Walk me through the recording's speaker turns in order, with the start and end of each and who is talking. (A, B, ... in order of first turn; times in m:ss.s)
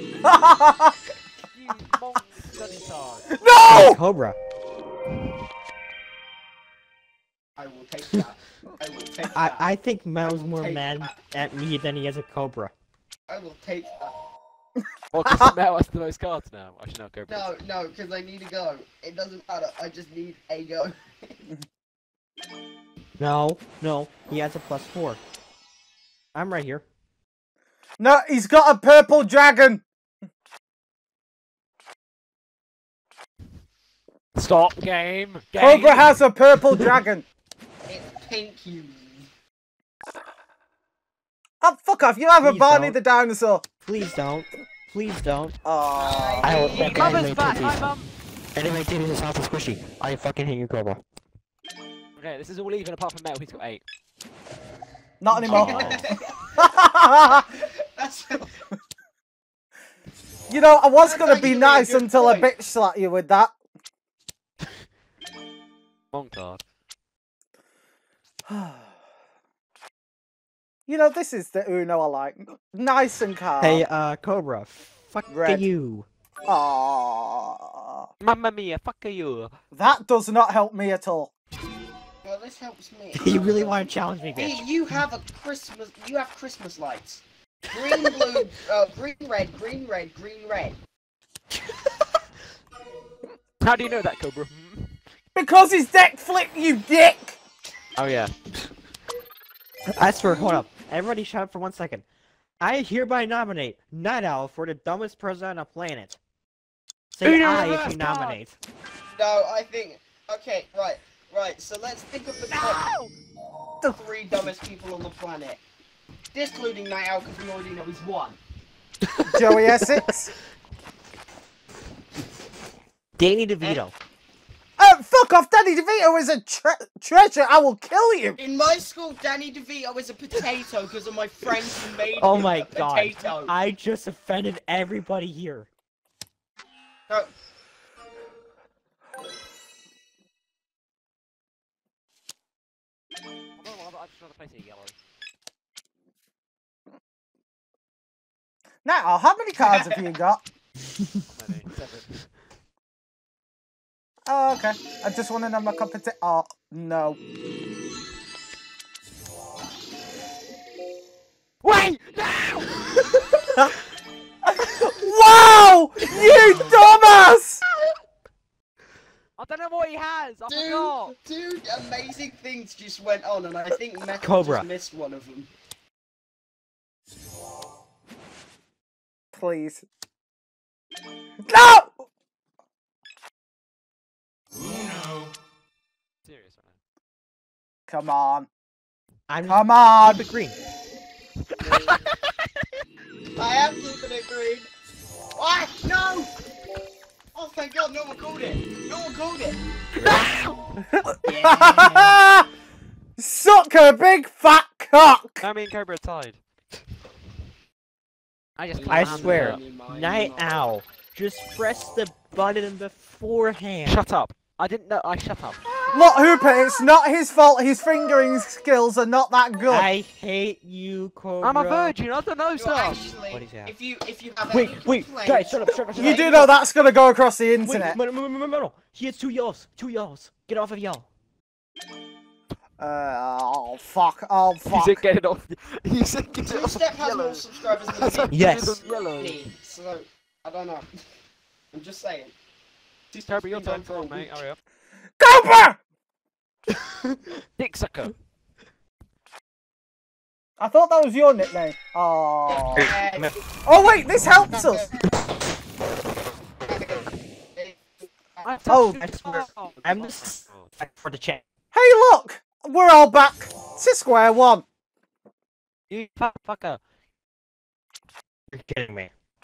0:00.2-0:00.9 A
0:01.4-0:03.3 B
0:03.4-0:04.0 A
0:03.6-0:04.4 C
0:07.6-0:09.7 D
0:09.3-0:12.7 C
0:10.2-0:11.2 D
0:13.3-0:14.1 D
0:14.8-0:15.5 A
0:15.1-0:17.6 B
0:17.3-0:21.4 D
0:23.2-0:25.2 C
0:26.3-0:26.8 C
0:28.0-0:29.8 A
0:34.3-0:36.2 B
0:35.6-0:37.2 A
0:37.9-0:39.3 D
0:41.6-0:43.6 A
0:42.4-0:43.0 C
0:43.8-0:45.5 C
0:45.6-0:46.6 A
0:45.9-0:47.2 D
0:46.4-0:47.9 C
0:46.8-0:48.1 B
0:48.5-0:51.0 C
0:52.2-0:53.8 B
0:55.2-0:55.9 A
0:55.5-0:56.0 B
0:55.5-0:56.7 D
0:55.5-0:56.0 C
0:56.6-0:57.4 A
0:57.3-0:58.5 D
1:00.5-1:03.5 A
1:01.0-1:02.5 D
1:06.1-1:06.6 B
1:08.5-1:08.9 A
1:10.9-1:13.8 A
1:13.6-1:16.1 C
1:15.3-1:15.7 A
1:16.5-1:18.1 A
1:18.2-1:19.6 B
1:19.7-1:21.3 A
1:22.2-1:30.8 D
1:23.1-1:24.7 C
1:33.6-1:35.0 B
1:35.3-1:37.4 A
1:38.0-1:38.4 B
1:40.0-1:42.0 C
1:40.2-1:40.5 D
1:42.6-1:46.2 C
1:47.1-1:48.6 C
1:47.2-1:48.4 B
1:49.2-1:52.8 D
1:52.5-1:53.1 B
1:53.9-1:55.6 D
1:56.3-1:58.4 D
1:59.3-2:00.3 A
2:03.2-2:04.0 C
2:04.8-2:08.4 A
2:08.4-2:13.5 D
2:12.2-2:15.7 C
2:23.6-2:24.9 B
2:28.8-2:30.4 A
2:29.6-2:30.1 D
2:31.3-2:32.2 B
2:34.2-2:37.2 A
2:41.6-2:43.7 B
2:44.6-2:47.6 A
2:46.0-2:46.8 B
2:46.2-2:46.5 D
2:49.4-2:51.1 B
2:50.5-2:55.5 D
2:54.2-2:54.6 C
2:59.3-2:59.8 A
3:01.4-3:02.0 A
3:06.2-3:06.8 B
3:07.9-3:08.5 A
3:09.3-3:10.6 C
3:09.4-3:10.2 A
3:11.6-3:12.0 D
3:11.7-3:12.1 B
3:13.4-3:14.7 D
3:15.4-3:16.3 D
3:17.3-3:20.6 D
3:19.9-3:20.6 B
3:20.9-3:22.4 A
3:21.2-3:22.2 D
3:23.2-3:25.4 A
3:25.4-3:26.4 B
3:28.6-3:29.6 B
3:28.7-3:30.6 D
3:28.9-3:34.0 C
3:33.8-3:35.7 B
3:35.9-3:39.9 A
3:39.7-3:41.9 C
3:41.4-3:43.0 B
3:42.6-3:46.5 D
3:43.3-3:43.7 C
3:44.5-3:46.5 C
3:45.9-3:48.0 A
3:47.6-3:51.1 C
3:52.8-3:55.0 A
3:54.7-3:59.4 B
3:56.4-4:00.9 D
3:58.3-3:58.8 C
4:01.7-4:02.3 D
4:03.1-4:04.4 D
4:03.2-4:04.6 B
4:05.2-4:05.8 A
4:07.6-4:08.1 B
4:10.6-4:12.9 A
4:12.5-4:13.4 D
4:12.8-4:13.4 C
4:13.6-4:14.9 A
4:14.3-4:14.9 D
4:16.6-4:18.6 D
4:18.4-4:20.7 B
4:18.7-4:19.1 A
4:18.7-4:21.4 C
4:21.7-4:24.6 A
4:25.9-4:26.8 C
4:26.5-4:26.8 B
4:28.5-4:29.1 C